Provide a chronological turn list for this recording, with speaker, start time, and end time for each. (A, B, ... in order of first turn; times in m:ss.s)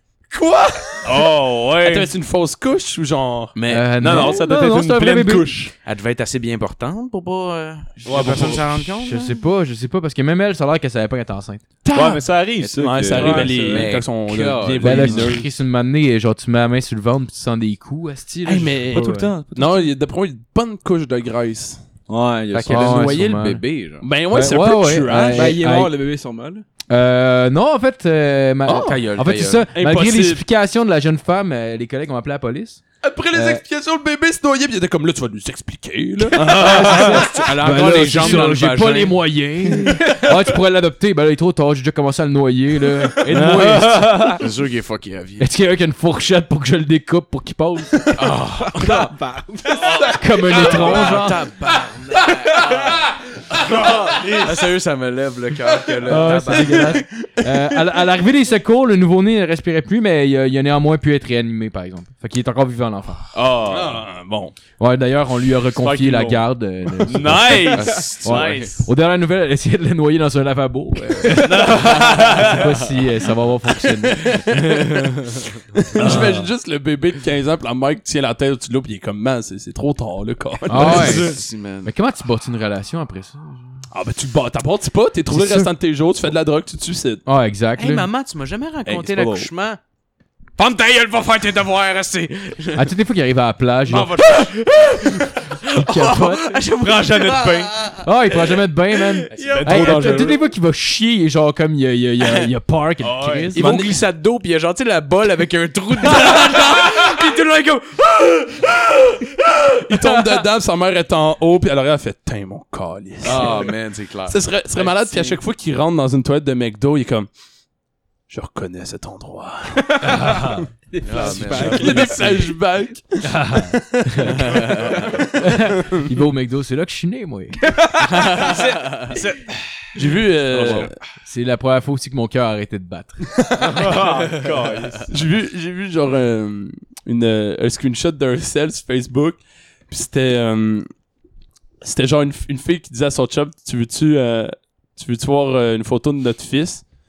0:00.3-0:03.5 A
0:01.0-0:02.1 B
0:03.5-0:04.3 C
0:03.7-0:05.5 D
0:04.0-0:05.7 B
0:05.8-0:09.4 C
0:08.0-0:08.9 A
0:09.0-0:11.6 D
0:11.9-0:13.7 B
0:12.6-0:15.4 C
0:12.7-0:15.5 A
0:13.2-0:13.9 E
0:14.8-0:19.3 D
0:18.4-0:21.8 A
0:18.9-0:19.9 B
0:22.1-0:23.1 B
0:22.5-0:24.0 C
0:22.7-0:23.6 D
0:24.0-0:25.6 A
0:24.3-0:25.9 D
0:25.1-0:26.6 E
0:26.9-0:32.8 D
0:28.7-0:29.6 C
0:29.7-0:30.4 A
0:33.0-0:37.5 A
0:33.3-0:33.6 D
0:36.3-0:37.2 B
0:36.5-0:44.4 D
0:36.7-0:39.2 C
0:43.3-0:44.4 B
0:44.4-0:45.5 C
0:45.4-0:48.0 D
0:48.2-0:49.1 C
0:48.7-0:50.1 E
0:50.0-0:51.4 D
0:50.4-0:57.0 C
0:50.5-0:51.0 A
0:56.0-1:03.2 D
1:03.3-1:04.0 B
1:03.6-1:04.5 A
1:04.8-1:14.5 D
1:05.7-1:06.5 B
1:07.0-1:08.8 B
1:07.4-1:08.7 C
1:11.4-1:12.6 B
1:11.5-1:12.1 A
1:14.2-1:15.1 C
1:14.3-1:15.0 A
1:15.7-1:21.3 A
1:16.0-1:16.5 D
1:20.7-1:23.8 D
1:20.7-1:21.9 C
1:23.9-1:27.2 A
1:25.3-1:25.7 D
1:27.2-1:28.1 D
1:27.8-1:29.8 C
1:28.8-1:29.5 B
1:30.6-1:32.9 C
1:32.7-1:34.2 D
1:33.9-1:40.4 C
1:33.9-1:34.5 B
1:35.7-1:36.6 D
1:36.9-1:37.8 B
1:38.0-1:43.7 D
1:39.3-1:40.4 B
1:43.0-1:43.6 B
1:43.6-1:49.8 C
1:43.6-1:44.0 A
1:49.8-1:53.7 A
1:53.2-1:55.4 C
1:54.3-1:57.3 A
1:58.3-2:00.6 A
2:00.0-2:00.6 D
2:00.9-2:02.3 E
2:01.0-2:02.0 C
2:01.4-2:06.0 A
2:01.5-2:02.2 B
2:03.2-2:04.4 D
2:04.4-2:05.0 C
2:05.3-2:07.6 D
2:08.0-2:09.2 C
2:08.4-2:08.7 E
2:09.9-2:10.9 A
2:10.5-2:10.9 C
2:11.2-2:13.2 D
2:13.6-2:15.1 B
2:13.6-2:13.9 A
2:15.1-2:20.9 A
2:21.8-2:26.8 A